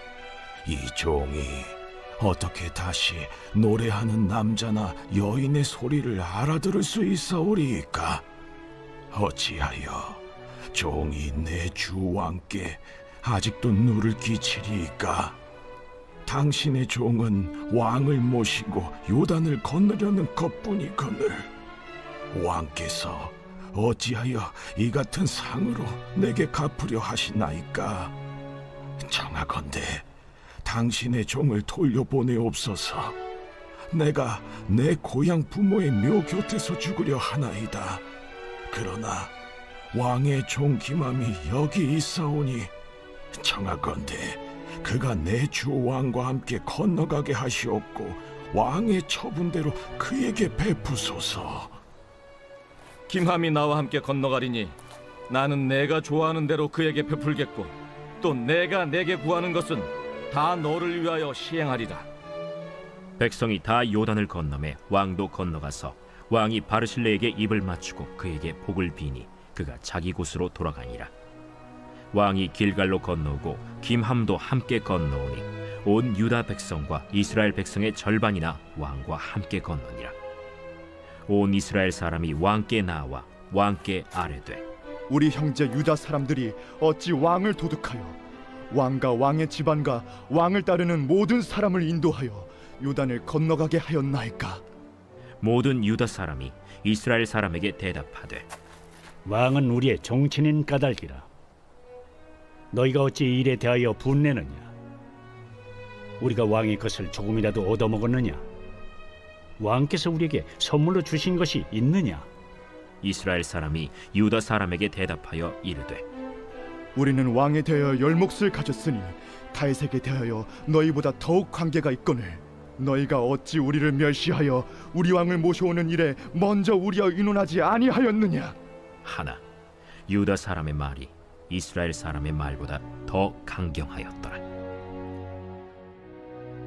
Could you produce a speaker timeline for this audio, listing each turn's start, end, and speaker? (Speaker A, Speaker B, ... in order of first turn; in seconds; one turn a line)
Speaker A: 0.6-8.2
Speaker A: 9.1-15.3
Speaker A: 16.2-21.5
Speaker A: 22.3-28.1
Speaker A: 29.0-30.0
Speaker A: 30.6-33.1
Speaker A: 33.9-38.0
Speaker A: 38.7-39.3
Speaker A: 39.9-42.7
Speaker A: 43.3-51.8
Speaker B: 53.1-54.8
Speaker B: 55.3-62.1
Speaker C: 63.2-71.1
Speaker C: 72.1-80.1
Speaker C: 81.3-84.6
Speaker D: 85.1-88.2
Speaker D: 88.7-94.6
Speaker C: 95.4-98.5
Speaker E: 99.2-101.3
Speaker E: 102.7-104.7
Speaker E: 106.2-108.4
Speaker E: 109.6-112.3
Speaker C: 113.0-116.0
Speaker D: 116.9-128.6
Speaker C: 129.0-129.4
Speaker C: 130.1-134.4